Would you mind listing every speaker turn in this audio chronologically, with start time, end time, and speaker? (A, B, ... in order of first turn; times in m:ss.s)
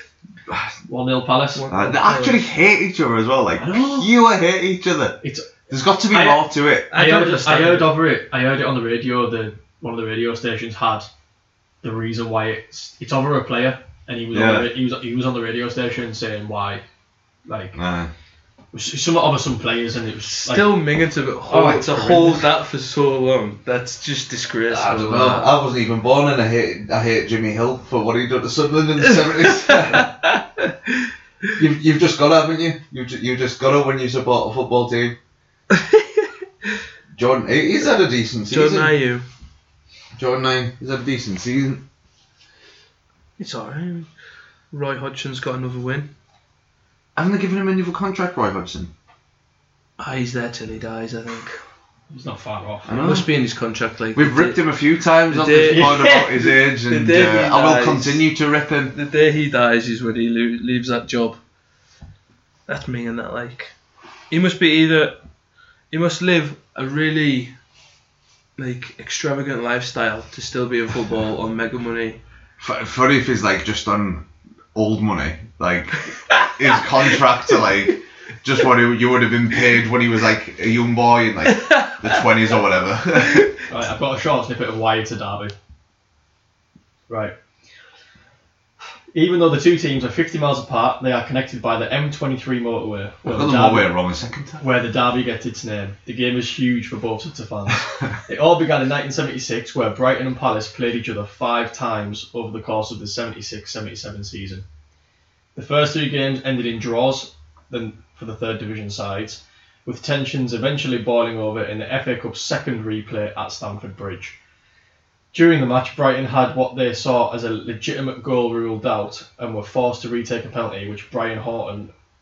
0:00.9-0:01.7 A
0:01.5-0:02.4 B
0:01.7-0:05.2 C
0:03.6-0:04.2 A
0:05.2-0:05.5 A
0:05.7-0:06.9 C
0:06.1-0:11.1 A
0:06.9-0:08.0 B
0:11.8-0:16.8 A
0:14.3-0:14.7 C
0:17.4-0:17.8 A
0:17.7-0:18.1 C
0:18.7-0:20.7 A
0:20.3-0:25.5 B
0:21.5-0:22.2 C
0:21.6-0:22.4 A
0:24.7-0:30.1 C
0:29.2-0:30.7 B
0:31.6-0:35.2 C
0:35.7-0:36.0 B
0:37.1-0:38.9 C
0:38.5-0:39.2 B
0:40.2-0:41.8 C
0:43.4-0:44.1 B
0:44.7-0:46.1 B
0:47.2-0:48.9 C
0:50.0-0:51.6 B
0:52.1-0:53.0 A
0:52.8-0:53.3 C
0:53.0-0:54.6 B
0:54.1-0:58.9 C
0:55.3-0:58.2 B
0:55.7-0:56.3 A
0:58.9-1:01.4 B
1:02.7-1:03.7 B
1:04.3-1:05.2 B
1:05.9-1:07.5 B
1:08.6-1:12.2 B
1:12.6-1:23.5 C
1:21.5-1:21.9 B
1:23.7-1:25.5 A
1:29.1-1:33.9 A
1:33.2-1:34.6 C
1:34.6-1:44.6 A
1:45.5-1:54.3 A
1:55.3-2:01.9 A